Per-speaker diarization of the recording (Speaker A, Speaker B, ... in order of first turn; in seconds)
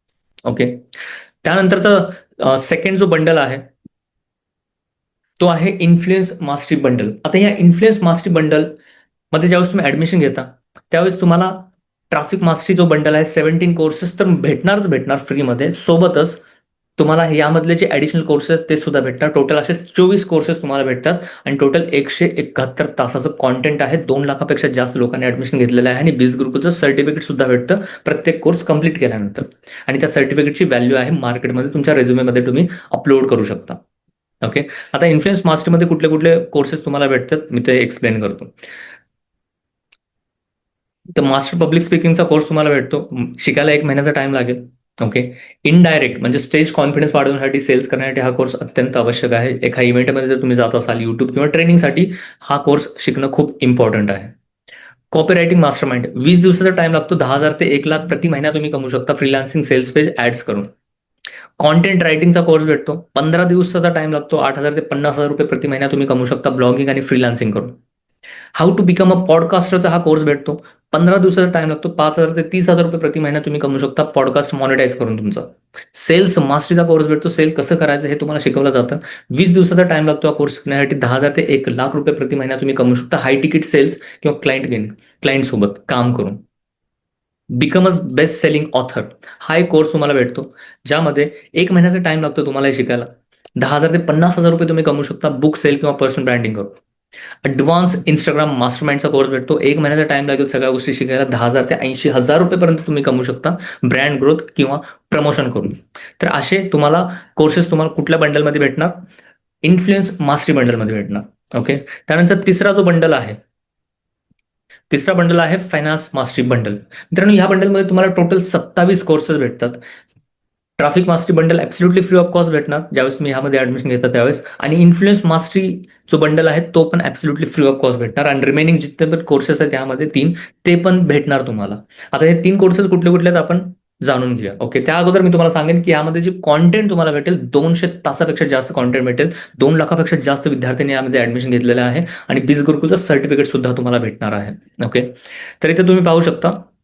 Speaker A: 0.4-0.8, 1.4-3.7, 5.4-8.7, 9.3-16.4, 17.0-33.8, 34.4-38.5, 41.1-54.3, 55.1-60.7, 61.6-67.8, 68.5-86.4, 87.5-96.8, 97.4-109.0, 109.6-113.4, 114.9-119.8, 120.8-146.7